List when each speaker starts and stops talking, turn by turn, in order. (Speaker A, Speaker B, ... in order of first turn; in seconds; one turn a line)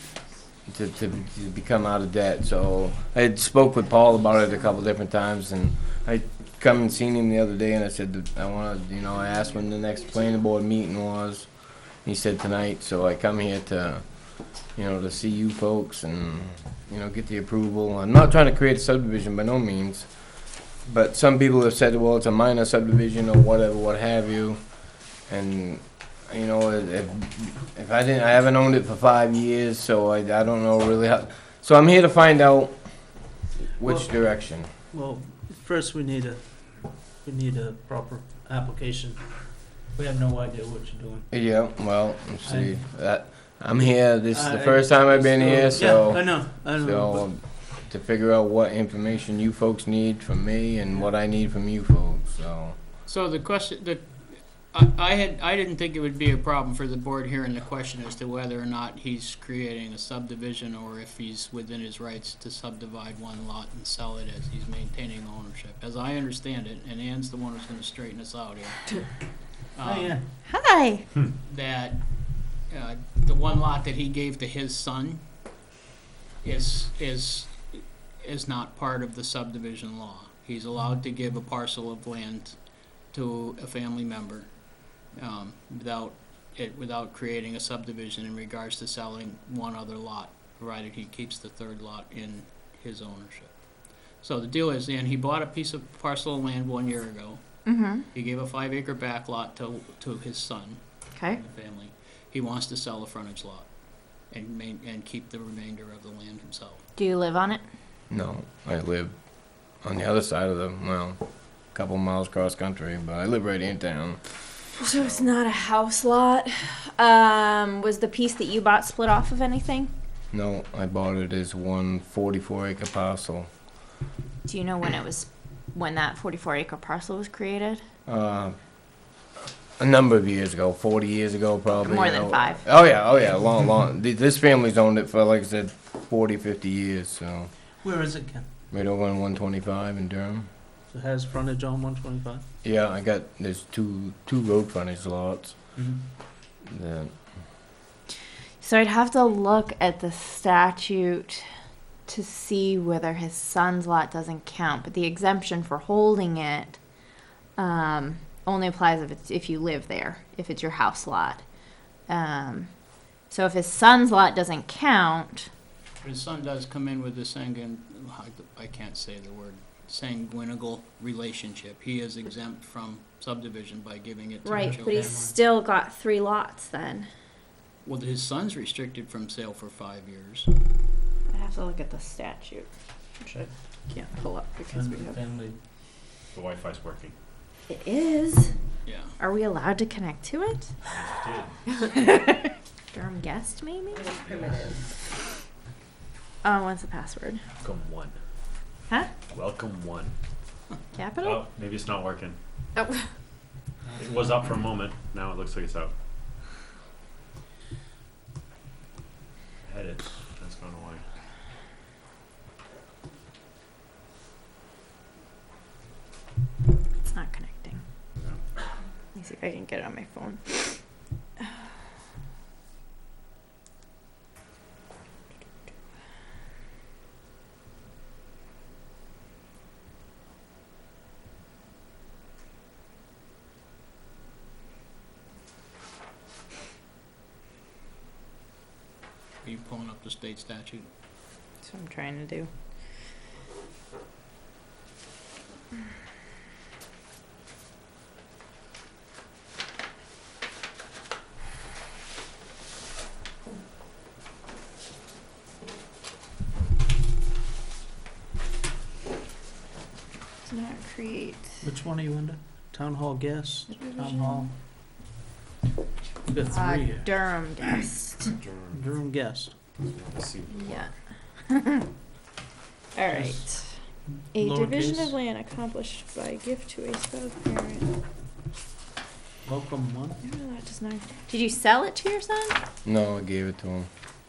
Speaker A: 0.7-20.3
Speaker A: 20.8-33.2
Speaker A: 33.8-34.7
Speaker B: 33.8-41.3
Speaker A: 41.3-52.8
Speaker B: 42.4-43.0
Speaker B: 44.3-47.4
Speaker C: 53.0-69.0
Speaker C: 69.7-70.2
Speaker B: 69.8-70.3
Speaker D: 70.4-71.0
Speaker C: 71.4-72.0
Speaker C: 72.7-75.2
Speaker C: 76.4-82.6
Speaker C: 83.1-84.5
Speaker C: 85.1-93.5
Speaker C: 94.2-97.4
Speaker D: 97.6-98.1
Speaker C: 98.1-103.7
Speaker C: 104.3-106.8
Speaker D: 107.0-107.6
Speaker A: 108.1-109.1
Speaker A: 109.8-111.2
Speaker A: 111.7-114.2
Speaker D: 114.8-119.9
Speaker A: 114.9-115.3
Speaker A: 120.3-123.5
Speaker D: 124.5-127.8
Speaker A: 128.1-128.6
Speaker A: 129.8-137.5
Speaker D: 131.8-132.6
Speaker B: 137.8-138.5
Speaker A: 138.7-140.5
Speaker B: 140.9-142.4
Speaker A: 142.6-145.6
Speaker B: 145.8-146.0
Speaker A: 146.6-147.1
Speaker D: 148.6-151.4
Speaker D: 152.1-156.8
Speaker D: 157.6-161.4
Speaker D: 162.1-162.7
Speaker D: 163.3-165.5
Speaker C: 166.0-175.1
Speaker D: 174.4-177.1
Speaker B: 174.6-175.3
Speaker C: 177.8-180.5
Speaker D: 181.3-182.7
Speaker D: 183.9-185.2
Speaker B: 184.7-185.6
Speaker E: 186.3-187.1
Speaker D: 187.7-188.5
Speaker C: 188.8-189.2
Speaker D: 189.2-190.7
Speaker E: 190.8-191.8
Speaker D: 191.8-194.1
Speaker E: 194.1-194.8
Speaker D: 196.4-197.4
Speaker E: 197.6-198.2
Speaker E: 199.3-200.1
Speaker D: 200.9-201.4
Speaker E: 201.2-202.4
Speaker D: 202.8-203.0
Speaker B: 203.9-204.4
Speaker E: 204.0-205.9
Speaker E: 209.6-211.0
Speaker D: 217.1-217.8
Speaker D: 219.1-220.8
Speaker C: 239.4-240.9
Speaker D: 241.6-242.5
Speaker D: 260.4-261.5
Speaker B: 261.6-264.5
Speaker D: 263.8-264.4
Speaker B: 266.2-267.1
Speaker D: 266.5-268.2
Speaker E: 268.2-268.9
Speaker B: 268.7-269.6
Speaker E: 269.8-270.9
Speaker D: 270.5-270.9
Speaker D: 271.5-271.8
Speaker D: 272.9-273.7
Speaker B: 273.1-273.6
Speaker B: 274.3-275.2
Speaker D: 274.4-277.9
Speaker B: 279.4-280.2
Speaker D: 280.2-282.6
Speaker A: 282.8-283.9